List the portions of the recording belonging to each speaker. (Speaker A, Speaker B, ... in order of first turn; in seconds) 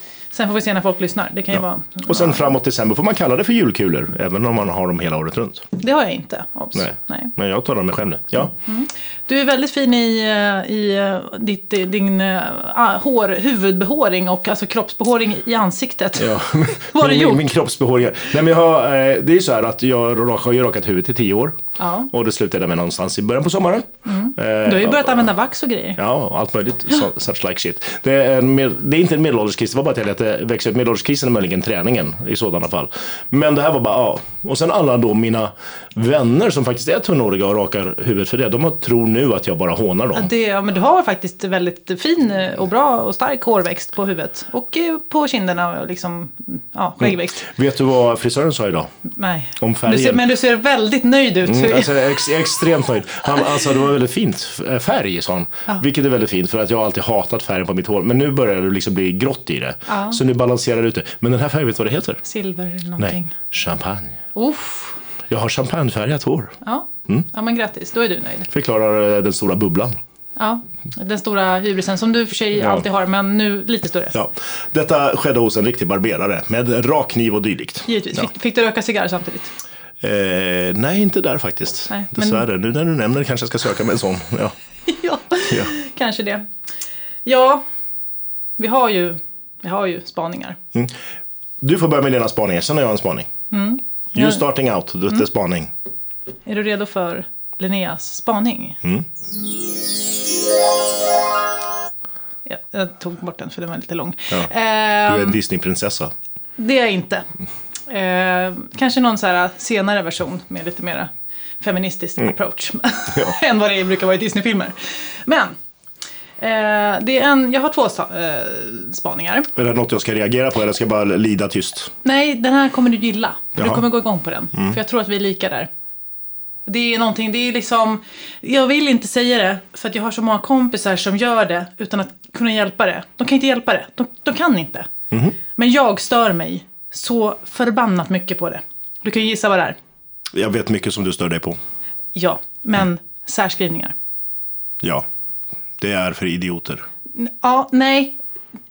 Speaker A: 0.3-2.5, 5.8-7.3, 8.7-17.4, 21.8-22.1, 24.1-26.0, 40.1-47.5, 49.0-52.3, 59.9-60.2, 62.2-63.3, 64.3-65.0, 66.6-68.5, 70.3-74.1, 77.8-79.5, 81.9-82.4, 84.9-86.5, 87.2-87.6, 88.6-90.6, 93.5-94.4, 96.5-98.8, 102.5-105.4, 106.6-107.3, 107.9-115.5, 116.4-119.5, 122.0-125.7, 126.7-134.9, 135.6-139.8, 142.2-143.9, 147.2-148.2
Speaker B: 1.5-5.7, 6.7-8.5, 16.2-25.3, 26.0-40.3, 47.0-48.9, 49.6-50.2, 51.4-62.2, 63.0-64.2, 65.3-66.5, 68.5-70.0, 72.6-72.8, 74.1-78.2, 80.0-84.5, 91.6-93.3, 94.1-95.7, 105.0-106.1, 119.5-121.9, 123.6-123.8, 135.1-135.3, 140.3-141.6, 145.8-146.8